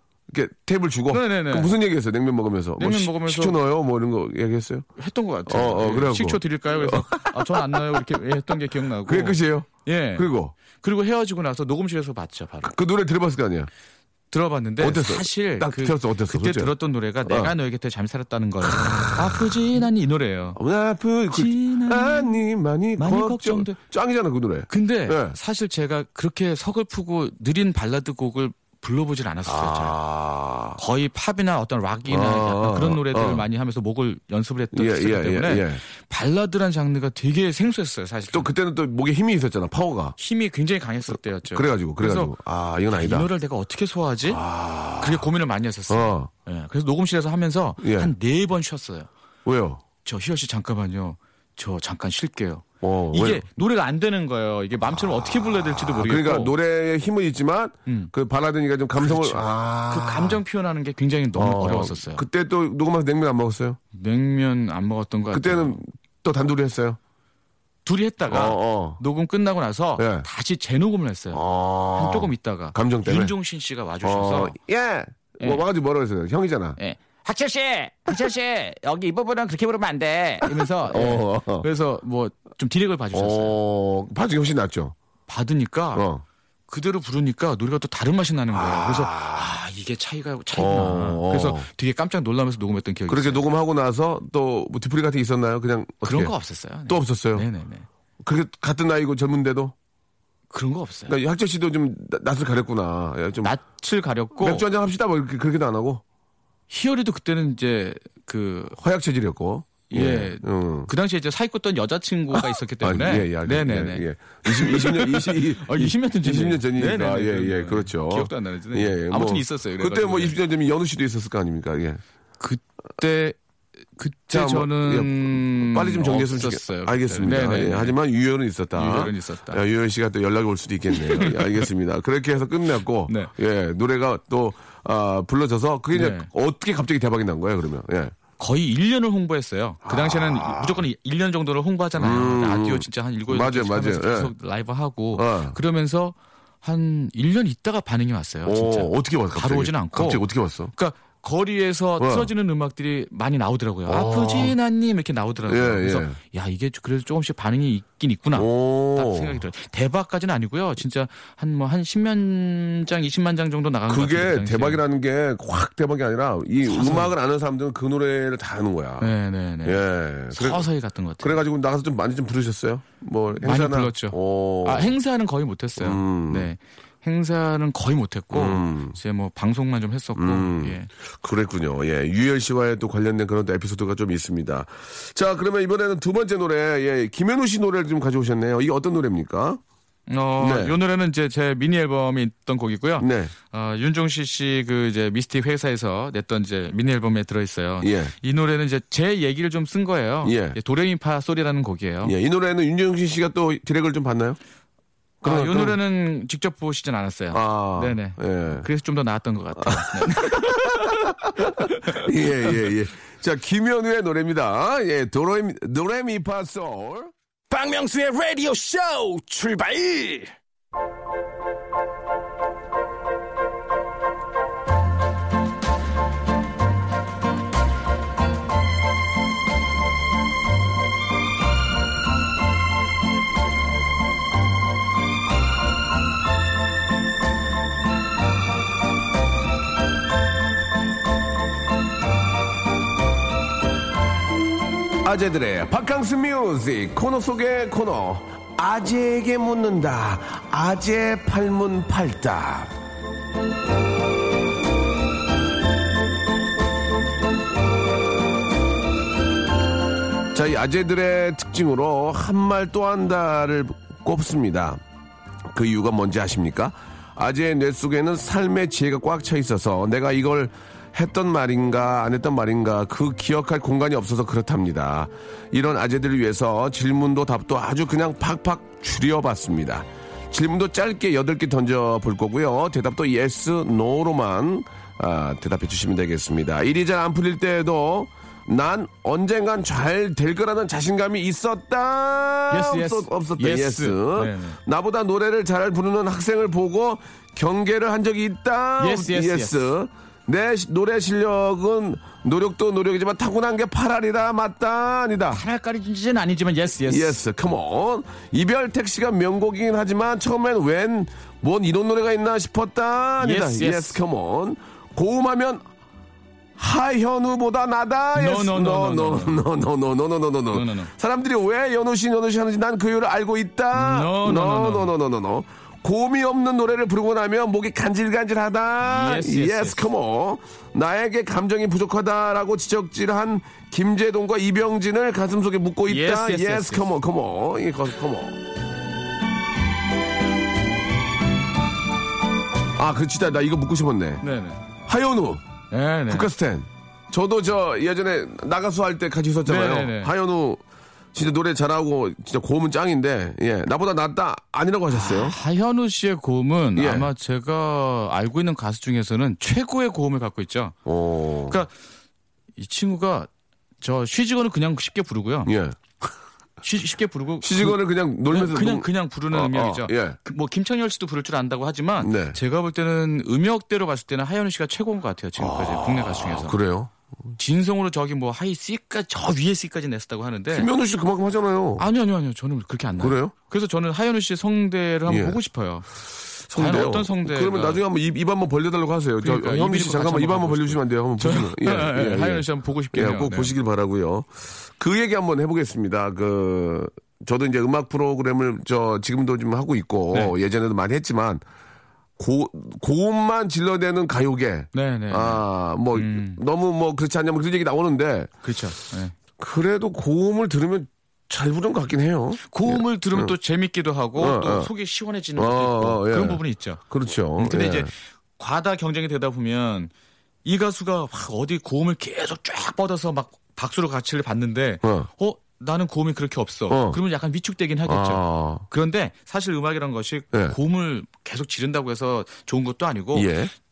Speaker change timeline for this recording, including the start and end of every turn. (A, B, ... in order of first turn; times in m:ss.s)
0:00.3-0:04.8 A
0:01.1-0:01.7 B
0:02.8-0:03.6 B
0:05.0-0:12.7 B
0:05.5-0:08.0 A
0:09.0-0:10.5 A
0:12.6-0:13.7 A
0:14.3-0:20.6 B
0:14.8-0:16.7 A
0:17.2-0:17.5 A
0:18.6-0:19.6 A
0:20.6-0:25.4 A
0:21.3-0:22.4 B
0:23.0-0:23.8 B
0:24.7-0:30.0 B
0:29.4-0:30.8 A
0:30.8-0:38.5 B
0:32.1-0:33.4 A
0:34.7-0:35.8 A
0:38.3-0:40.2 A
0:40.2-0:42.3 B
0:41.5-0:43.3 A
0:42.9-0:44.4 B
0:44.3-0:45.2 A
0:45.0-0:49.1 B
0:45.9-0:46.3 A
0:47.8-0:48.1 A
0:49.4-0:49.8 A
0:50.0-0:56.5 B
0:52.8-0:53.4 A
0:55.8-1:00.4 A
0:57.8-0:58.1 B
0:59.0-1:02.2 B
1:01.3-1:03.8 A
1:03.9-1:05.8 B
1:05.3-1:07.0 A
1:07.8-1:14.6 B
1:08.3-1:09.0 A
1:10.0-1:10.2 A
1:11.3-1:13.3 A
1:14.0-1:16.8 A
1:15.4-1:15.6 B
1:16.8-1:23.6 B
1:20.8-1:21.6 A
1:23.1-1:24.9 A
1:25.3-1:26.0 B
1:25.9-1:26.2 A
1:26.7-1:33.4 B
1:28.5-1:29.4 A
1:30.5-1:31.7 A
1:33.1-1:36.3 A
1:36.0-1:37.8 B
1:36.9-1:37.5 A
1:38.2-1:39.7 A
1:40.5-1:41.2 B
1:41.1-1:43.5 A
1:43.4-1:44.6 B
1:44.4-1:46.0 A
1:46.7-1:48.8 B
1:48.8-1:50.9 A
1:49.9-2:00.4 B
1:52.8-2:02.0 A
2:02.4-2:03.4 B
2:04.0-2:08.0 B
2:04.3-2:18.2 A
2:08.7-2:09.6 B
2:10.9-2:11.6 B
2:15.9-2:16.3 B
2:18.4-2:44.8 B
2:19.8-2:20.8 A
2:22.0-2:24.3 A
2:25.1-2:25.6 A
2:28.4-2:30.7 A
2:32.0-2:32.3 A
2:33.9-2:34.6 A
2:35.5-2:36.2 A
2:38.3-2:39.4 A
2:43.9-2:49.1 A
2:46.7-2:47.1 B
2:49.0-2:51.4 B
2:49.6-2:50.6 A
2:51.2-2:54.9 A
2:53.4-3:00.9 B
2:55.8-2:56.5 A
2:58.3-2:59.0 A
3:00.2-3:09.6 A
3:10.1-3:22.2 B
3:10.4-3:10.8 A
3:13.0-3:13.3 A
3:17.8-3:18.1 A
3:20.2-3:20.6 A
3:22.0-3:24.4 A
3:25.2-3:25.8 A
3:25.2-3:32.1 B
3:27.3-3:28.6 A
3:29.6-3:37.1 A
3:37.5-3:40.3 C
4:05.0-4:12.7 A
4:20.3-4:24.8 A
4:25.5-5:05.4 A
4:52.5-4:54.6 B
4:58.8-4:59.7 B
5:05.3-5:07.2 B
5:06.8-5:15.6 A
5:13.2-5:14.0 B
5:16.6-5:38.4 A
5:18.1-5:19.4 B
5:20.5-5:20.9 B
5:23.7-5:24.9 B
5:28.8-5:29.9 B
5:35.9-5:36.9 B
5:42.8-5:44.2 A
5:44.2-5:44.6 B
5:44.9-5:45.4 A
5:45.7-5:46.3 B
5:46.1-5:50.6 A
5:49.4-5:50.1 B
5:51.1-5:55.4 A
5:54.9-6:00.7 B
5:56.8-5:57.1 A
6:00.8-6:01.6 A
6:02.6-6:03.3 B
6:03.8-6:05.5 B
6:05.4-6:06.1 A
6:06.6-6:16.6 B
6:07.4-6:10.2 A
6:12.0-6:12.4 A
6:15.4-6:16.9 A
6:17.4-6:20.7 B
6:20.5-6:21.8 A
6:21.8-6:25.9 B
6:23.0-6:23.3 A
6:25.1-6:25.4 A
6:26.5-6:41.4 A
6:26.5-6:27.8 B
6:29.2-6:33.5 B
6:42.2-6:48.3 A
6:44.7-6:46.4 B
6:48.4-6:49.1 B
6:49.4-6:53.3 A
6:52.5-6:56.8 B
6:54.2-6:54.7 A
6:55.4-6:57.9 A
6:57.4-6:59.9 B
7:00.4-7:13.3 B
7:04.8-7:05.1 A
7:06.7-7:07.0 A
7:07.8-7:08.6 A
7:13.1-7:13.5 A